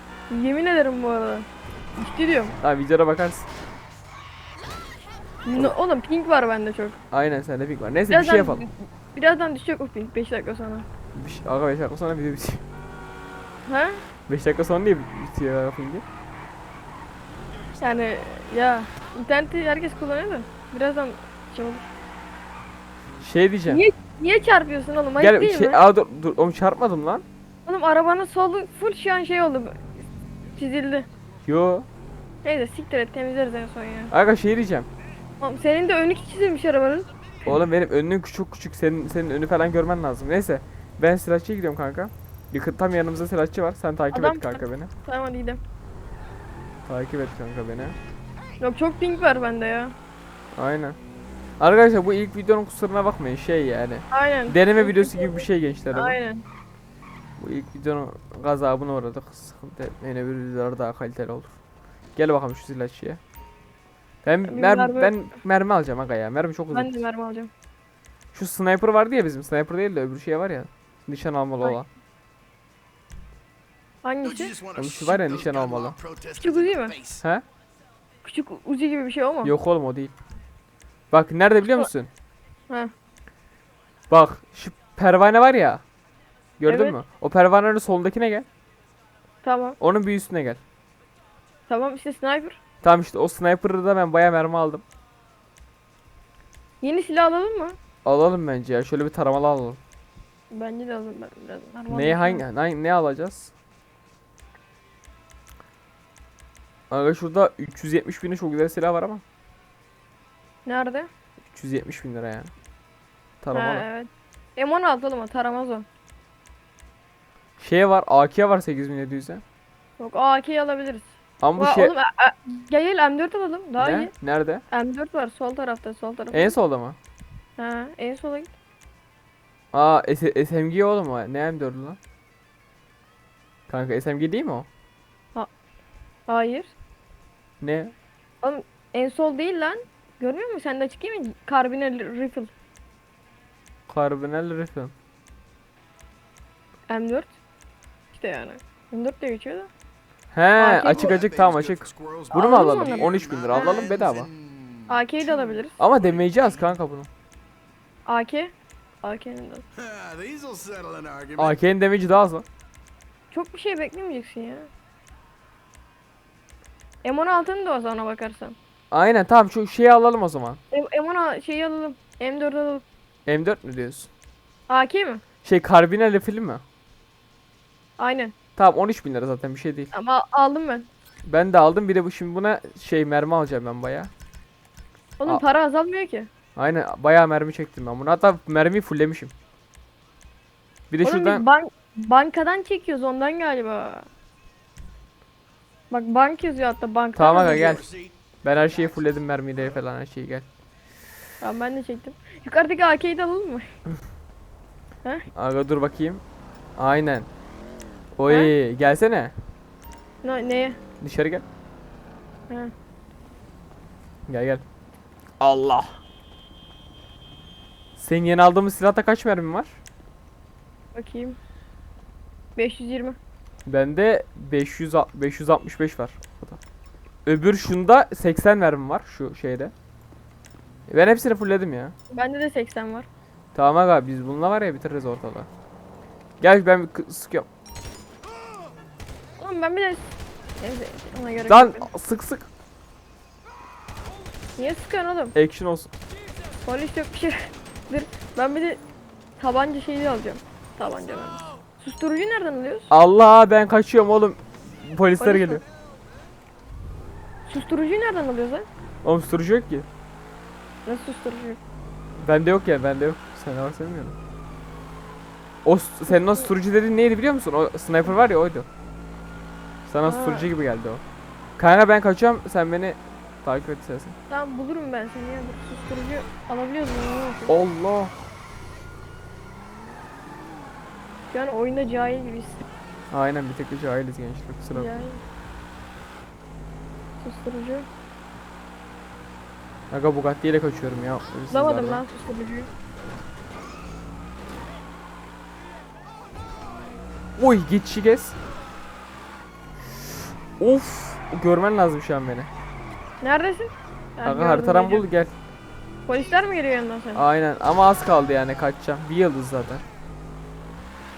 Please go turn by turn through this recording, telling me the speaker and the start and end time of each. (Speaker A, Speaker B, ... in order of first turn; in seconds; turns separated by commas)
Speaker A: 0.3-2.5, Speaker B: 2.6-3.5, Speaker A: 5.5-7.0, Speaker B: 7.1-8.6, Speaker A: 8.1-10.9, Speaker B: 11.2-12.6, Speaker A: 13.7-14.0, Speaker B: 14.3-16.1, Speaker A: 17.8-21.9, Speaker B: 23.2-23.8, Speaker A: 23.7-25.8, Speaker B: 25.2-27.2, Speaker A: 27.7-29.8, Speaker A: 30.6-31.1, Speaker B: 31.5-31.9, Speaker A: 32.4-34.1, Speaker B: 34.1-34.9, Speaker A: 35.4-37.1, Speaker B: 37.4-44.9, Speaker A: 44.1-45.6, Speaker B: 46.9-48.0, Speaker A: 48.6-50.0, Speaker B: 50.5-51.0, Speaker B: 51.6-56.2, Speaker A: 54.1-56.4, Speaker B: 57.4-61.6, Speaker B: 62.2-63.2, Speaker B: 64.2-67.0, Speaker A: 64.5-65.1, Speaker A: 66.7-67.5, Speaker B: 68.3-71.9, Speaker A: 74.0-74.6, Speaker C: 74.4-77.2, Speaker B: 74.8-76.0, Speaker A: 76.4-77.0, Speaker A: 78.2-79.5, Speaker B: 79.4-80.1, Speaker B: 81.1-82.1, Speaker A: 81.6-81.9, Speaker B: 84.1-85.8, Speaker B: 86.6-88.5, Speaker A: 86.7-87.0, Speaker A: 89.4-89.8, Speaker B: 89.8-90.6, Speaker A: 91.7-92.6, Speaker B: 92.8-94.8, Speaker A: 96.8-97.8, Speaker B: 98.0-99.8, Speaker A: 100.5-102.4, Speaker B: 101.9-103.5, Speaker B: 106.9-109.2, Speaker A: 110.7-111.1, Speaker B: 111.4-112.5, Speaker B: 113.4-113.8, Speaker A: 113.5-115.9, Speaker B: 117.6-119.4, Speaker A: 120.0-124.1, Speaker B: 121.4-121.9, Speaker B: 123.8-124.6, Speaker A: 124.7-126.5, Speaker B: 126.3-127.0, Speaker A: 127.6-128.5, Speaker B: 129.7-132.0, Speaker B: 133.7-134.7, Speaker A: 136.3-136.7, Speaker B: 137.6-137.9, Speaker A: 138.4-142.5, Speaker B: 143.9-144.9, Speaker A: 146.9-147.3, Speaker A: 148.1-149.7, Speaker B: 150.3-154.3, Speaker A: 150.6-151.2, Speaker C: 151.1-154.8, Speaker A: 152.3-153.1, Speaker A: 154.9-155.8, Speaker B: 155.8-157.1, Speaker A: 158.1-158.5, Speaker A: 159.0-159.6, Speaker C: 159.8-161.5, Speaker B: 161.4-162.4, Speaker A: 163.3-164.7, Speaker A: 167.0-168.6, Speaker B: 168.9-170.6, Speaker A: 170.7-172.8, Speaker B: 173.3-174.1, Speaker A: 174.7-175.2, Speaker B: 175.4-176.6, Speaker A: 178.0-178.3, Speaker B: 178.6-179.9, Speaker A: 179.9-180.9, Speaker B: 181.3-184.1, Speaker A: 185.2-186.3, Speaker B: 186.6-189.3, Speaker B: 190.9-191.4, Speaker A: 191.0-194.1, Speaker A: 195.9-197.8, Speaker B: 197.2-197.9, Speaker C: 197.8-198.1, Speaker B: 198.4-200.5, Speaker A: 201.4-203.7, Speaker B: 205.3-206.2, Speaker B: 206.8-207.3, Speaker B: 208.2-209.3, Speaker A: 210.2-210.8, Speaker B: 211.0-211.4, Speaker B: 214.3-214.6, Speaker B: 215.4-216.0, Speaker B: 218.0-219.8, Speaker A: 220.9-221.4, Speaker A: 222.6-223.2, Speaker B: 223.7-226.6, Speaker B: 227.2-229.7, Speaker B: 230.9-231.9, Speaker A: 232.1-233.1, Speaker B: 233.6-235.5, Speaker B: 236.4-237.5, Speaker A: 239.4-240.0, Speaker A: 240.6-241.9, Speaker B: 241.5-242.5, Speaker A: 244.6-245.3, Speaker B: 245.3-245.9, Speaker A: 246.7-248.8, Speaker A: 249.4-252.9, Speaker B: 252.9-255.6, Speaker A: 255.2-255.6, Speaker A: 257.5-258.7, Speaker B: 259.0-259.9, Speaker A: 260.9-261.6, Speaker B: 262.2-264.2, Speaker B: 265.6-268.7, Speaker A: 266.1-266.4, Speaker B: 269.9-271.0, Speaker A: 270.1-270.5, Speaker B: 271.6-274.2, Speaker A: 274.3-277.6, Speaker B: 277.5-278.1, Speaker A: 281.3-282.6, Speaker B: 283.1-285.0, Speaker A: 284.7-285.2, Speaker A: 287.2-287.9, Speaker B: 289.9-292.0, Speaker A: 291.5-292.7, Speaker B: 297.4-298.4, Speaker B: 300.6-302.5, Speaker A: 303.2-305.1, Speaker B: 304.2-305.3, Speaker A: 306.1-307.2, Speaker B: 307.1-309.8